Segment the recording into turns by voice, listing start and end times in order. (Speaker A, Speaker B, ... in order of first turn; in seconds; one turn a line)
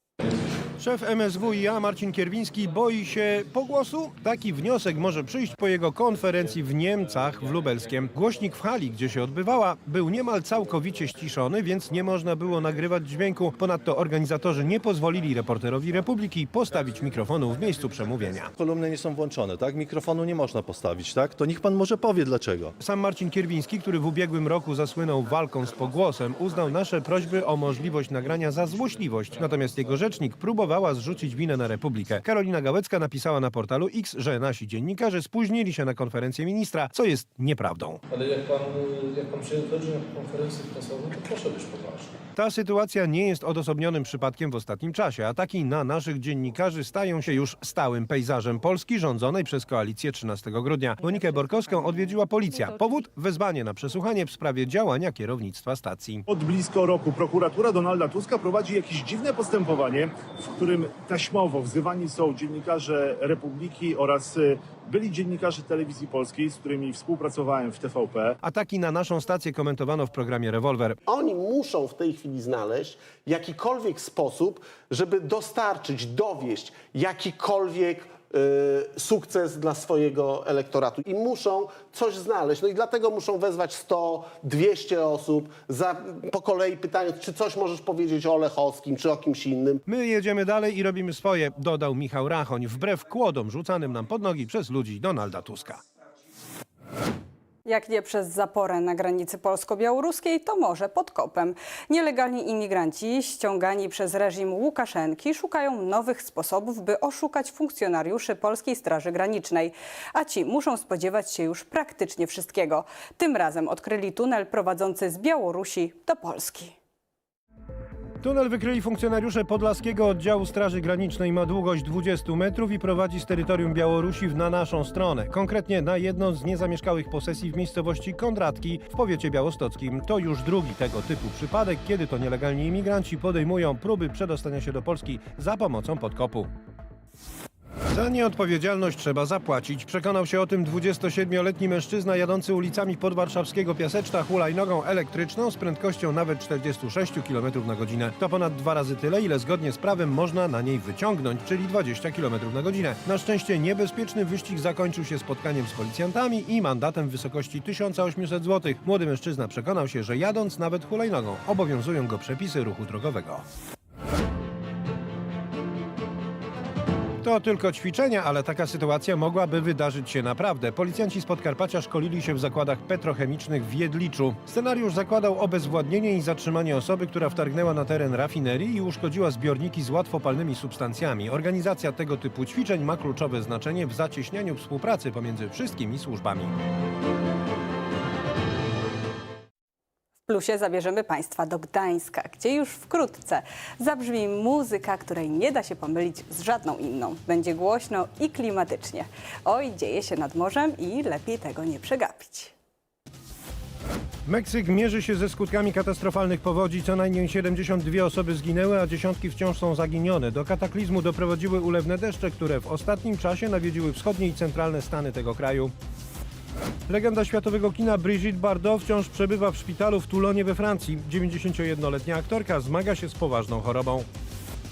Speaker A: 0.8-18.5
Speaker B: 18.6-22.7
Speaker A: 22.8-38.0
Speaker C: 38.1-42.1
Speaker A: 42.4-56.2
Speaker D: 56.3-68.3
Speaker A: 68.4-71.0
Speaker E: 71.1-89.8
Speaker A: 89.8-95.8
Speaker F: 97.6-116.8
Speaker A: 118.2-136.5
Speaker A: 137.9-163.4
Speaker A: 167.2-186.5
Speaker F: 190.2-202.5
Speaker A: 204.2-215.7
Speaker A: 216.9-224.1